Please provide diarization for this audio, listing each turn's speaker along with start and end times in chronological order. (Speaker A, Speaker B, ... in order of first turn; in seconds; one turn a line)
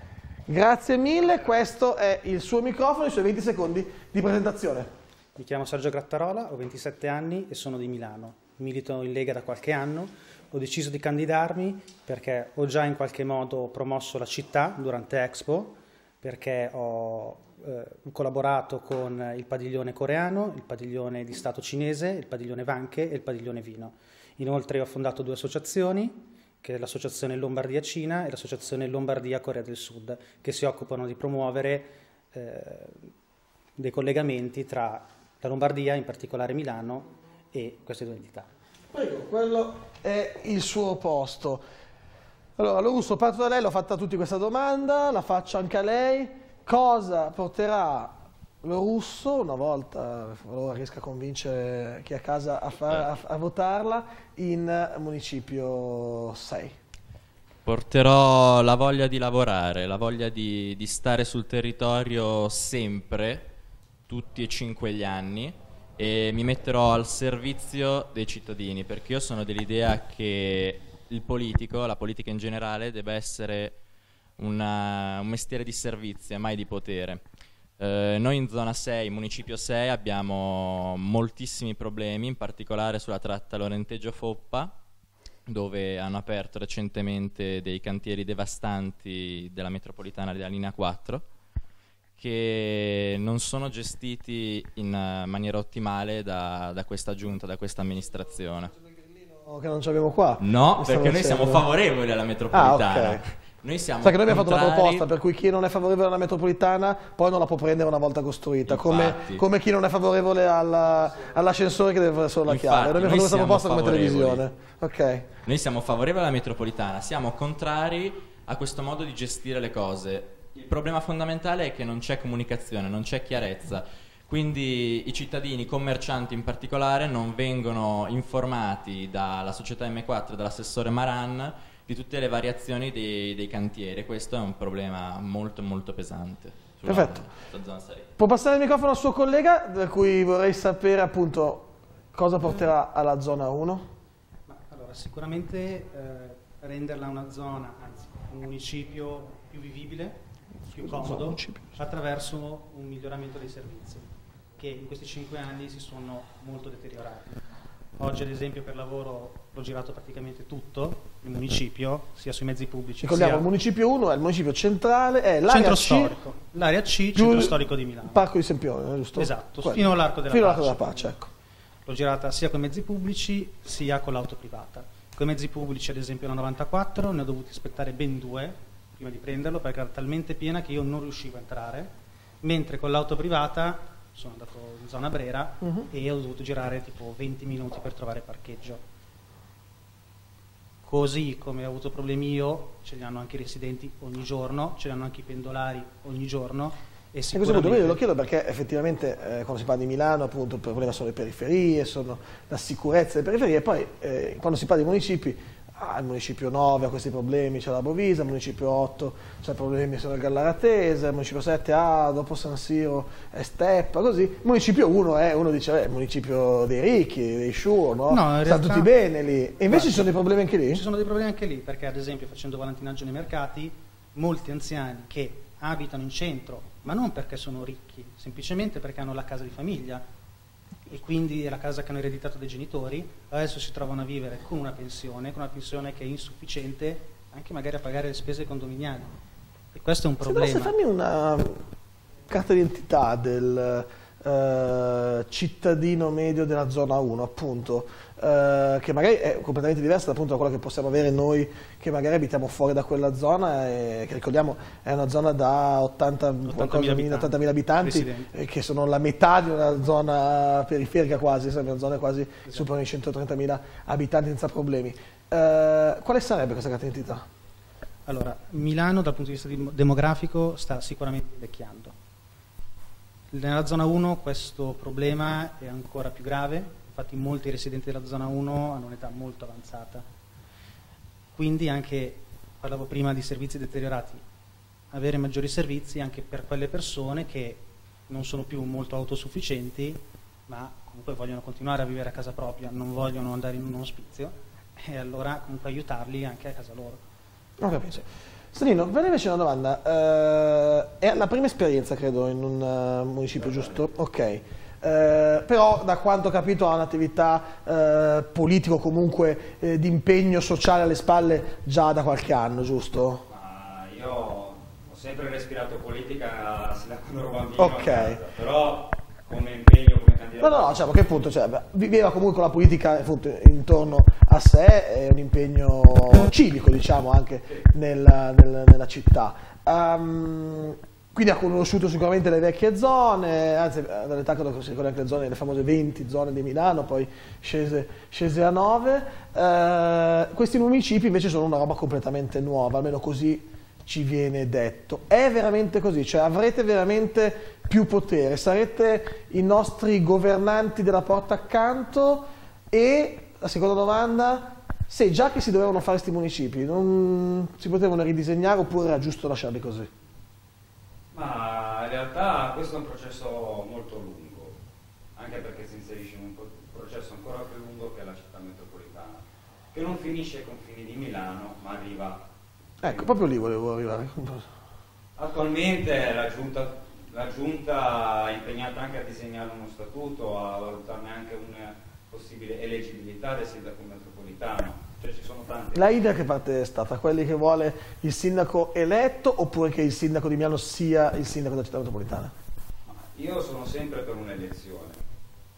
Speaker A: 0.5-4.9
Speaker B: 5.4-33.1
Speaker B: 33.8-38.5
Speaker A: 38.9-41.6
Speaker A: 42.6-48.1
Speaker A: 48.6-56.7
Speaker C: 57.6-63.5
Speaker C: 64.1-73.8
Speaker C: 74.4-77.2
Speaker C: 77.8-84.8
Speaker C: 85.5-91.2
Speaker C: 92.2-98.7
Speaker A: 99.0-101.7
Speaker C: 100.4-105.0
Speaker A: 102.5-103.2
Speaker A: 104.0-115.3
Speaker C: 108.7-109.4
Speaker C: 112.5-114.4
Speaker C: 115.5-138.1
Speaker A: 136.8-137.3
Speaker A: 138.2-143.8
Speaker B: 144.5-154.1
Speaker A: 150.8-151.7
Speaker B: 154.6-157.4
Speaker B: 158.0-163.5
Speaker A: 163.0-166.2
Speaker B: 165.5-168.3
Speaker A: 167.2-171.3
Speaker B: 169.2-171.2
Speaker B: 171.8-181.9
Speaker B: 182.4-188.8
Speaker B: 190.8-198.0
Speaker A: 197.3-220.8
Speaker B: 218.1-218.9
Speaker B: 219.7-230.0
Speaker B: 230.9-239.1
Speaker B: 239.7-240.8
Speaker A: 240.2-241.6
Speaker A: 242.3-267.2
Speaker B: 256.4-258.3
Speaker B: 268.1-271.9
Speaker B: 273.3-280.1
Speaker B: 281.4-284.2
Speaker B: 284.9-297.0
Speaker A: 297.6-313.2
Speaker D: 303.4-303.7
Speaker D: 313.3-321.2
Speaker A: 317.6-318.2
Speaker A: 320.4-359.9
Speaker D: 361.1-364.6
Speaker D: 365.2-372.3
Speaker A: 372.8-374.5
Speaker D: 372.8-373.2
Speaker D: 375.2-386.1
Speaker A: 385.8-392.3
Speaker D: 392.9-395.0